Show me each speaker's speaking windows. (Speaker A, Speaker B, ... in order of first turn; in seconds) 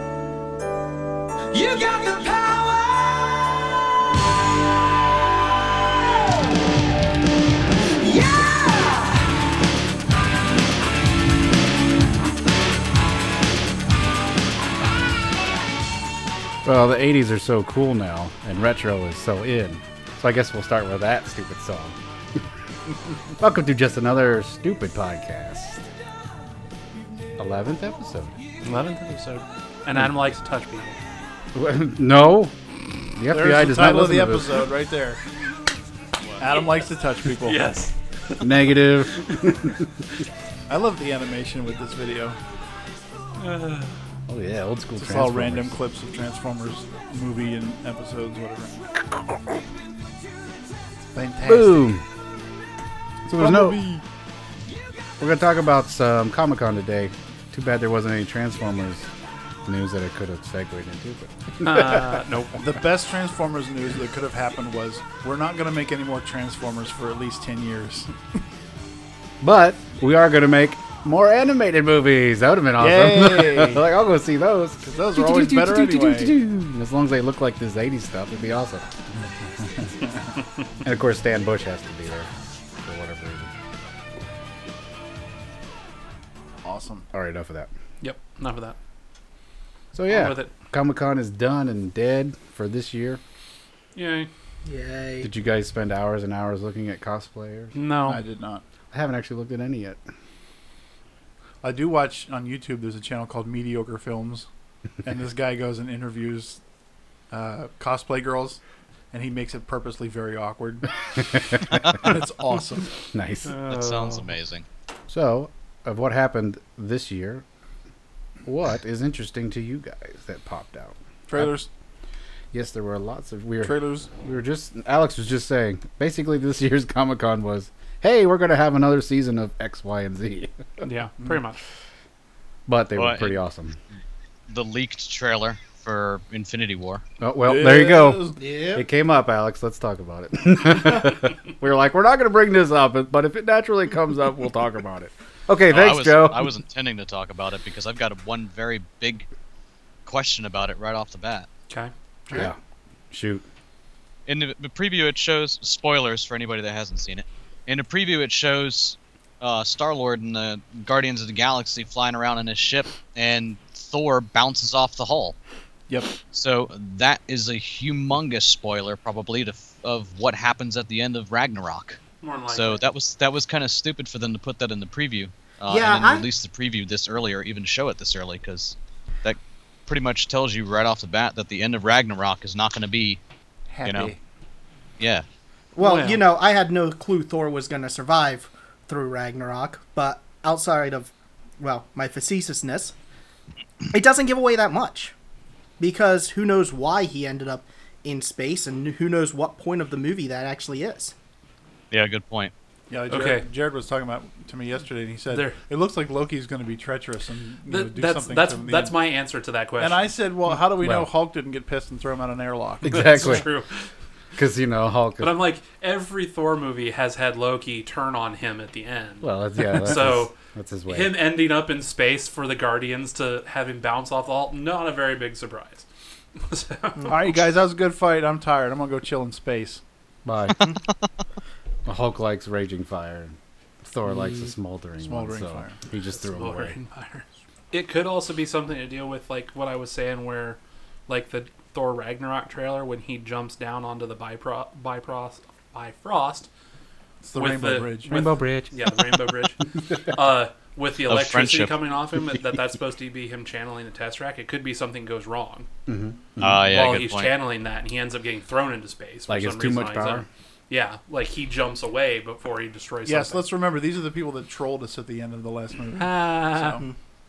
Speaker A: 1.5-3.0, 8.0-9.0
Speaker B: 16.6-22.4, 23.3-25.9, 27.4-28.4, 31.5-34.7, 38.4-39.9, 44.3-45.7, 49.0-49.4, 51.4-52.0, 53.2-53.9, 55.2-59.1, 59.6-62.2, 69.4-79.0, 80.8-82.3, 82.8-83.5, 87.1-87.7, 89.9-93.2, 95.2-97.8, 98.9-100.0, 113.1-113.6, 115.1-117.4, 118.4-121.5, 122.5-130.6, 132.7-133.8, 137.2-146.5, 152.3-152.6, 153.1-153.4, 210.8-211.1, 212.8-213.4, 214.3-215.4, 219.2-221.2, 230.2-230.6, 231.8-236.8, 248.1-248.9, 255.9-256.6, 259.3-260.2
Speaker C: 28.6-31.0, 37.4-38.4, 43.4-44.0, 61.6-62.6, 88.0-88.8, 90.1-90.5, 93.9-94.3, 97.7-98.2, 113.5-114.3, 130.8-131.6, 172.2-172.8, 185.8-186.2, 203.1-203.5, 205.3-205.6, 207.7-210.1, 212.9-213.9, 215.2-220.3, 220.9-225.8, 226.5-227.3, 236.1-246.5, 247.3-255.7, 256.6-263.5, 266.0-266.8
Speaker D: 33.3-35.2, 36.4-37.7, 40.7-42.4, 45.0-48.7, 51.1-51.9, 53.3-54.0, 62.6-68.1, 72.8-73.8, 74.8-76.3, 79.6-80.3, 86.6-87.1, 98.0-98.6, 101.6-104.5, 105.0-106.6, 107.3-108.6, 109.1-110.9, 111.7-112.9, 121.3-121.7, 123.6-124.1, 137.4-138.4, 165.9-166.2, 183.7-184.2, 202.9-208.9, 209.8-213.4, 227.1-229.8, 234.1-234.5, 235.0-235.8, 247.2-248.2, 263.1-266.8
Speaker E: 94.6-95.3, 138.4-138.8, 175.7-176.3, 185.7-192.9, 193.9-195.1, 195.8-201.1
Speaker F: 113.7-114.7, 132.9-133.4, 134.5-137.0, 145.7-149.3, 150.0-151.5, 154.3-165.3, 166.3-183.2, 183.8-184.1, 185.0-185.2, 201.9-202.5, 251.1-251.8, 256.4-257.3